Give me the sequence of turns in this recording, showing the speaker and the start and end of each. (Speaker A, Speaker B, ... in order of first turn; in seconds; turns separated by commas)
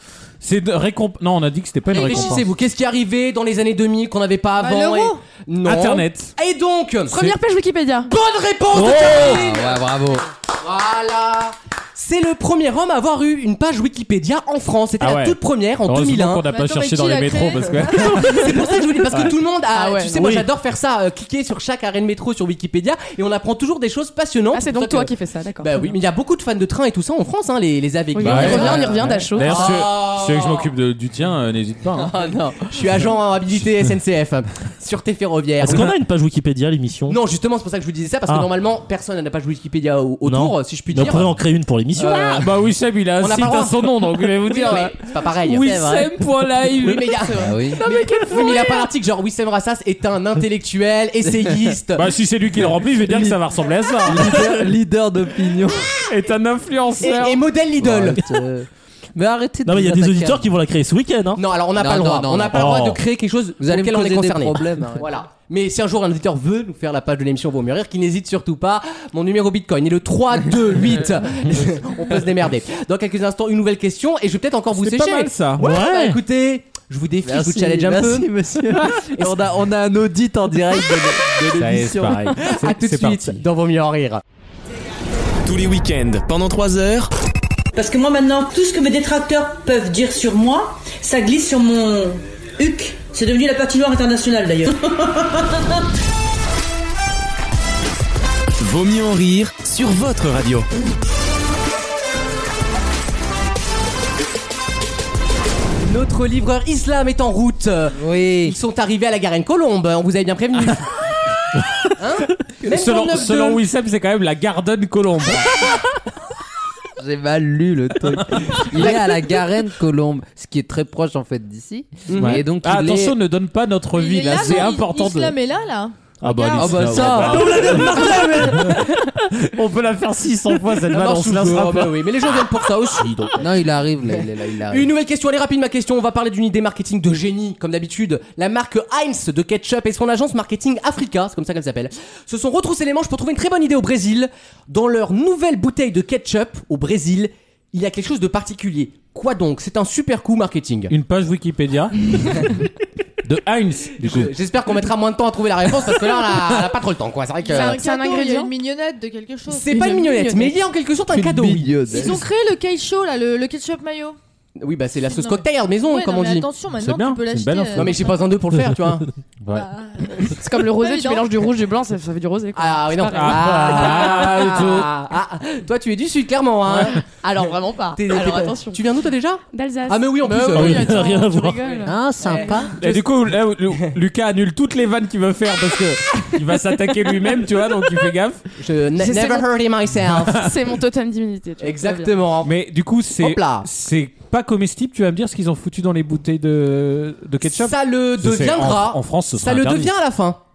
Speaker A: 0.4-2.5, Speaker B: 1.9-7.3, Speaker C: 4.6-5.2, Speaker A: 5.6-6.3, Speaker D: 7.2-8.1, Speaker B: 8.1-9.9, Speaker A: 8.7-9.4, Speaker E: 8.9-10.2, Speaker B: 10.5-16.4, Speaker A: 15.0-19.4, Speaker C: 16.5-18.4, Speaker B: 18.0-30.7, Speaker D: 19.7-20.2, Speaker F: 20.1-20.5, Speaker D: 24.5-25.8, Speaker D: 28.1-29.6, Speaker A: 28.2-32.1, Speaker B: 31.9-35.9, Speaker F: 35.6-37.2, Speaker A: 35.7-35.9, Speaker B: 37.1-41.4, Speaker F: 40.2-42.3, Speaker B: 41.9-42.5, Speaker A: 42.0-47.1, Speaker B: 43.2-45.8, Speaker E: 45.6-46.1, Speaker B: 46.8-52.0, Speaker E: 47.3-47.8, Speaker D: 47.8-48.9, Speaker E: 51.3-51.7, Speaker A: 52.0-54.5, Speaker E: 53.0-53.4, Speaker E: 54.0-55.9, Speaker A: 56.0-57.4, Speaker B: 57.0-58.2, Speaker E: 57.8-60.4, Speaker F: 59.6-61.4, Speaker B: 61.4-78.3, Speaker E: 61.7-62.9, Speaker A: 62.5-63.0, Speaker E: 63.6-65.1, Speaker A: 74.7-75.6, Speaker F: 75.6-76.2, Speaker E: 77.2-82.3, Speaker A: 81.5-83.4, Speaker B: 82.4-84.2, Speaker G: 85.4-87.1, Speaker H: 87.7-95.9, Speaker G: 98.6-100.7, Speaker B: 105.8-110.9, Speaker E: 107.9-108.5, Speaker B: 112.0-113.6, Speaker A: 112.7-115.8, Speaker E: 117.0-123.2, Speaker B: 118.7-119.2, Speaker B: 122.1-122.4, Speaker A: 122.1-125.3, Speaker C: 123.9-128.4, Speaker A: 126.2-132.1, Speaker E: 126.6-128.2, Speaker B: 126.8-128.7, Speaker F: 127.7-128.2, Speaker B: 130.9-133.4, Speaker E: 133.4-134.9, Speaker B: 134.7-150.9, Speaker A: 150.9-152.6, Speaker A: 153.2-154.3, Speaker B: 154.0-157.8, Speaker A: 156.1-156.5, Speaker C: 157.4-159.9, Speaker D: 157.5-158.5, Speaker B: 159.5-162.2, Speaker D: 159.7-160.6, Speaker E: 161.1-162.2, Speaker C: 161.9-164.2, Speaker B: 164.6-166.5, Speaker C: 165.1-168.2, Speaker A: 166.8-168.0, Speaker B: 167.8-169.1, Speaker A: 169.4-169.7, Speaker C: 169.5-171.3, Speaker D: 170.2-174.4, Speaker B: 172.5-183.0, Speaker A: 173.1-174.9, Speaker D: 177.0-178.8, Speaker D: 179.5-181.9, Speaker F: 180.5-181.6, Speaker E: 181.8-182.7, Speaker A: 182.8-188.4, Speaker B: 188.6-190.5, Speaker D: 189.0-189.5, Speaker A: 190.1-190.5, Speaker D: 190.3-192.1, Speaker B: 191.6-192.5, Speaker A: 192.4-199.9, Speaker B: 193.2-193.7, Speaker B: 197.4-200.4